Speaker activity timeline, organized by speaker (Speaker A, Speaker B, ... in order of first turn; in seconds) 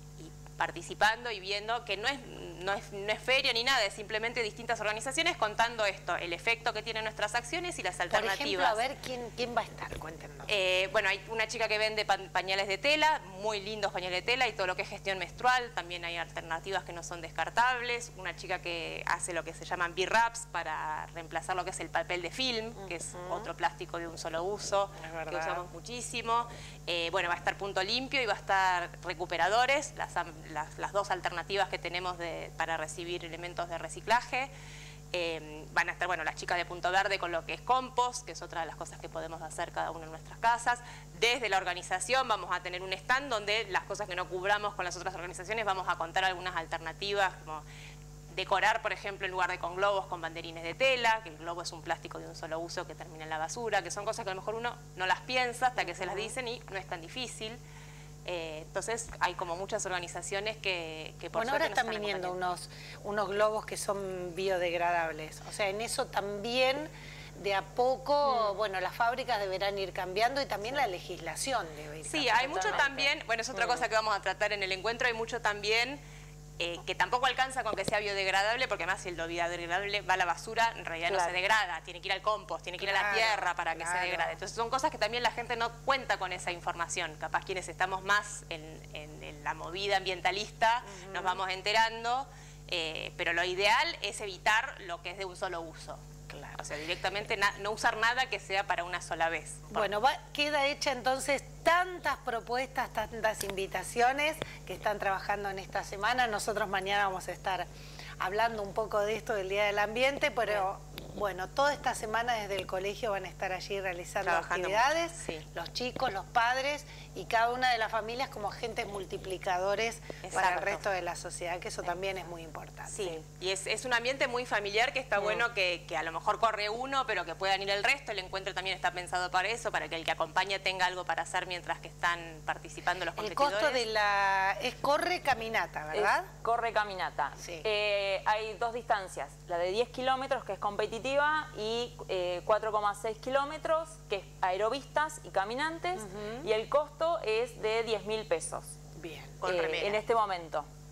Speaker A: 0.2-8.8, 10.5-34.5, 35.1-47.6, 48.3-57.6, 58.2-62.4, 72.0-76.0, 76.6-96.0, 96.6-99.9, 114.2-115.5, 120.2-120.8, 122.9-133.8, 149.4-150.0
Speaker B: 8.1-10.5, 23.1-23.5, 25.0-25.6, 55.8-56.4, 61.3-73.0, 82.8-84.4, 90.8-91.4, 96.3-96.6, 99.7-107.7, 108.2-123.2, 133.2-136.3, 137.4-137.7, 146.0-146.5, 149.0-149.4
Speaker C: 72.5-73.8, 135.9-148.7, 149.4-150.7